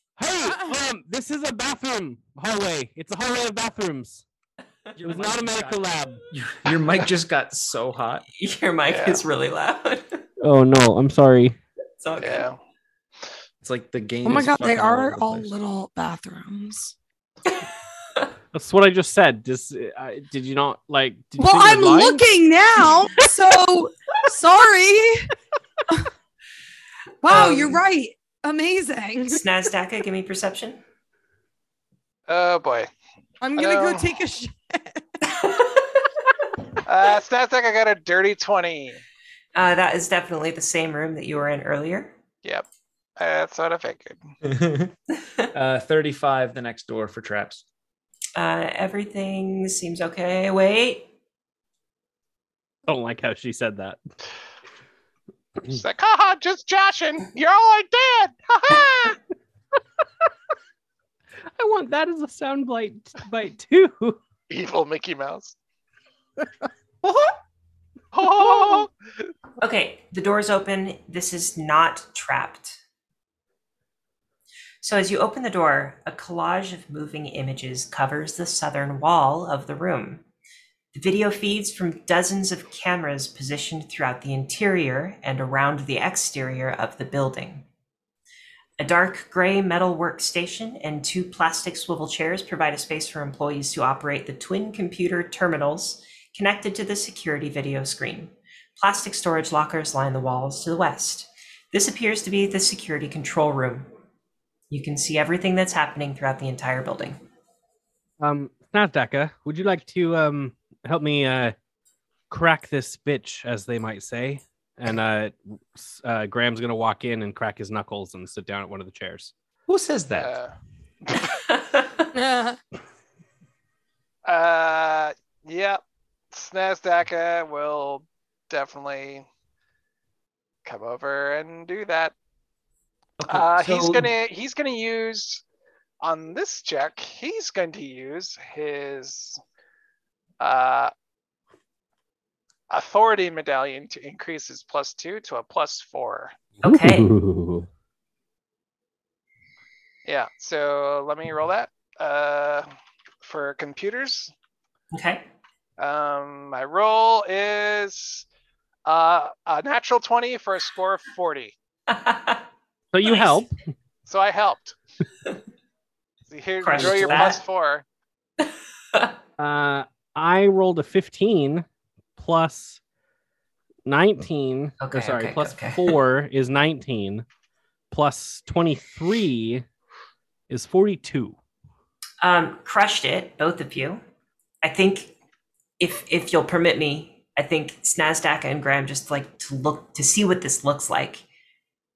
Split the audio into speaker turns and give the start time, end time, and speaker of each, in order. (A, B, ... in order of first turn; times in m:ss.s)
0:00.2-0:04.2 A
0:04.9-0:08.2 B
0:05.0-0:06.2 A
0:08.4-0:10.2 C
0:08.9-0:09.2 D
0:10.4-0:11.6 A
0:12.0-0:12.5 C
0:12.2-0:12.6 D
0:13.6-0:15.5 B
0:14.2-0:16.9 E
0:17.4-0:18.3 C
0:18.5-0:22.2 A
0:21.4-0:25.3 E
0:27.2-0:29.4 E
0:27.3-0:27.8 C
0:29.3-0:30.8 C
0:32.3-0:32.9 D
0:33.4-0:35.0 E
0:33.6-0:34.2 D
0:35.3-0:36.1 C
0:36.9-0:39.0 D
0:39.6-0:42.1 C
0:43.2-0:44.3 D
0:44.4-0:44.9 B
0:45.5-0:47.6 B
0:48.3-0:51.1 C
0:52.9-0:54.0 A
0:55.7-0:59.2 D
1:01.6-1:04.2 A
1:04.5-1:05.6 D
1:07.0-1:07.3 A
1:08.1-1:08.9 D
1:09.6-1:12.8 C
1:14.8-1:20.2 C
1:20.9-1:27.6 C
1:28.8-1:43.9 C
1:44.7-1:47.2 C
1:48.2-1:51.6 A
1:52.3-1:59.3 A
1:59.7-2:00.4 B
2:00.1-2:00.5 D
2:01.6-2:02.1 C
2:02.1-2:02.6 E
2:04.2-2:09.3 D
2:10.6-2:12.1 D
2:13.2-2:14.1 B
2:13.3-2:15.4 D
2:16.0-2:19.4 D
2:20.4-2:20.9 D
2:22.7-2:26.3 D
2:26.6-2:27.1 C
2:26.6-2:27.7 A
2:30.1-2:32.7 D
2:33.2-2:34.3 D
2:34.9-2:35.2 C
2:35.8-2:38.3 D
2:38.8-2:41.6 D
2:41.9-2:42.4 C
2:42.9-2:43.6 A
2:43.0-2:43.4 C
2:44.1-2:44.8 D
2:46.3-2:47.8 D
2:46.6-2:47.4 C
2:49.4-2:51.6 A
2:52.2-2:52.8 A
2:53.8-2:57.3 A
2:54.8-2:55.9 C
2:57.9-2:59.6 A
3:00.5-3:01.4 A
3:02.2-3:04.0 C
3:04.6-3:05.1 C
3:05.8-3:11.2 C